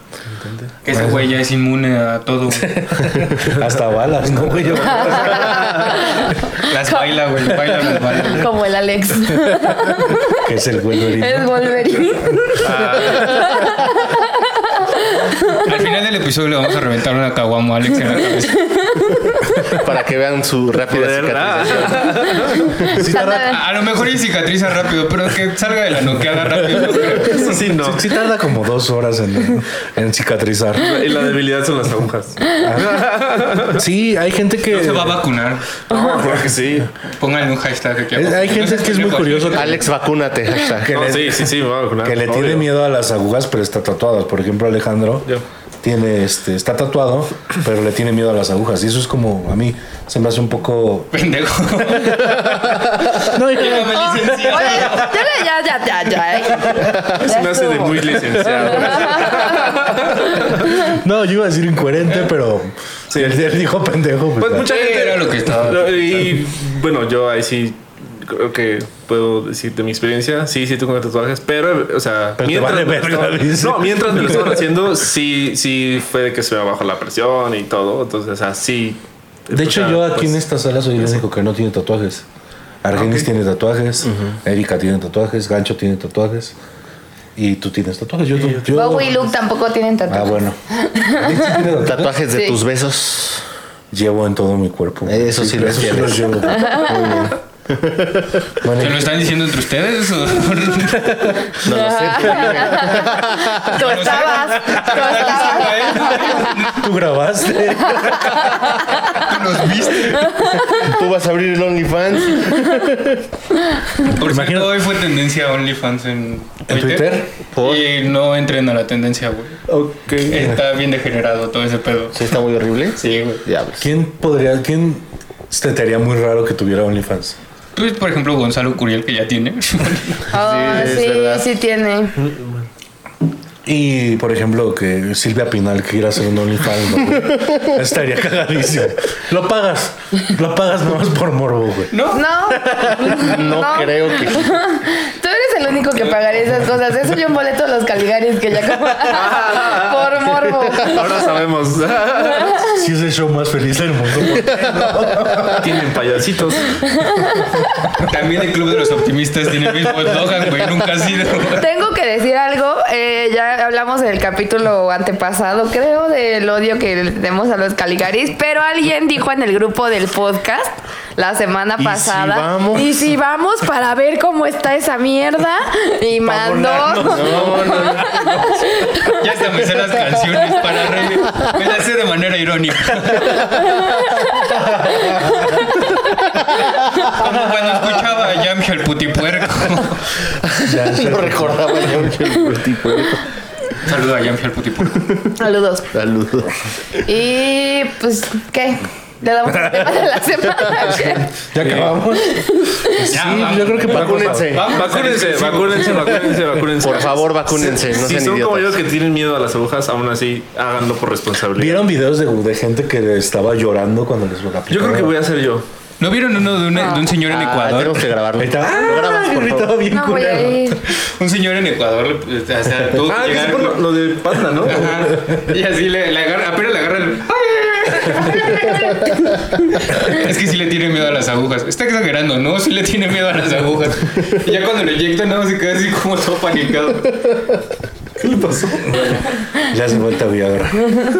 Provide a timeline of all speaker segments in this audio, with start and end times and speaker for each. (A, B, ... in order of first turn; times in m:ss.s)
0:00.3-0:00.7 A
0:00.8-0:03.1 B
0:00.9-0:01.3 C
0:02.5-0:05.7 C
0:04.4-0:05.6 A
0:05.0-0:10.4 D
0:06.5-0:08.6 B
0:10.4-0:11.5 C
0:11.1-0:15.7 D
0:12.6-0:13.7 A
0:15.6-0:18.6 B
0:18.6-0:19.4 D
0:19.7-0:22.9 E
0:20.9-0:22.8 A
0:22.9-0:23.6 C
0:23.1-0:23.6 D
0:23.4-0:27.7 B
0:27.3-0:28.1 A
0:27.5-0:31.0 C
0:30.8-0:33.8 A
0:32.6-0:33.1 C
0:33.6-0:35.2 C
0:34.7-0:35.8 B
0:35.9-0:36.9 A
0:37.2-0:39.8 B
0:38.1-0:39.8 C
0:39.5-0:41.0 E
0:40.8-0:45.3 C
0:40.9-0:42.7 A
0:45.8-0:51.1 C
0:51.1-0:52.6 B
0:53.2-0:55.1 C
0:53.2-0:55.1 B
0:54.5-0:59.9 D
0:57.1-1:00.7 A
1:00.6-1:04.7 C
1:03.1-1:03.5 A
1:04.4-1:20.4 A
1:04.6-1:06.4 B
1:12.4-1:14.6 C
1:19.5-1:22.2 C
1:22.8-1:26.6 C
1:22.9-1:23.3 A
1:24.1-1:24.3 E
1:27.4-1:29.2 C
1:28.4-1:28.8 A
1:28.7-1:31.4 D
1:30.1-1:32.1 C
1:31.8-1:33.4 E
1:33.9-1:37.3 C
1:35.1-1:38.4 E
1:36.5-1:37.2 D
1:38.6-1:39.2 C
1:38.8-1:41.6 B
1:41.6-1:43.9 E
1:41.7-1:46.3 D
1:43.7-1:46.8 B
1:44.4-1:45.1 C
1:46.0-1:48.8 C
1:48.0-1:49.0 D
1:49.1-1:50.5 B
1:50.7-1:53.2 E
1:54.0-1:59.6 B
1:54.2-1:54.8 C
1:56.7-1:57.3 C
1:57.6-1:57.8 E
1:59.7-2:00.4 A
2:00.2-2:02.3 B
2:00.3-2:00.6 C
2:02.1-2:03.9 E
2:03.0-2:03.4 B
2:03.8-2:07.4 C
2:07.8-2:10.3 B
2:10.3-2:12.2 D
2:10.3-2:11.5 E
2:12.2-2:12.6 A
2:13.6-2:21.9 C
2:21.9-2:22.2 B
2:22.1-2:31.3 D
2:22.5-2:23.2 C
2:23.1-2:24.6 E
2:29.1-2:32.6 A
2:31.1-2:31.4 E
2:32.6-2:35.7 C
2:35.6-2:36.8 A
2:37.0-2:37.8 D
2:38.0-2:41.7 B
2:41.5-2:59.2 D
2:51.8-2:53.0 E
2:56.2-2:58.9 C
2:57.0-2:58.1 E
2:59.1-3:03.6 B
3:03.5-3:05.3 D
3:04.9-3:05.5 C
3:07.1-3:10.2 B
3:10.5-3:13.2 E
3:10.6-3:12.1 C
3:13.8-3:15.2 B
3:15.4-3:15.9 D
3:15.9-3:16.7 E
3:17.1-3:21.3 D
3:19.4-3:24.6 C
3:21.6-3:22.0 A
3:22.2-3:23.0 D
3:23.0-3:26.3 B
3:23.8-3:24.9 E
3:24.7-3:31.9 A
3:26.8-3:28.8 E
3:31.6-3:35.1 C
3:34.7-3:35.6 A
3:36.0-3:38.1 B
3:36.7-3:37.1 D
3:37.2-3:39.8 E
3:38.4-3:40.8 C
3:38.8-3:39.2 D
3:39.9-3:40.8 D
3:41.0-3:43.9 B
3:43.0-3:45.2 A
3:44.6-3:57.4 B
3:48.6-3:49.0 D
3:58.2-3:59.2 A
3:59.0-4:01.0 C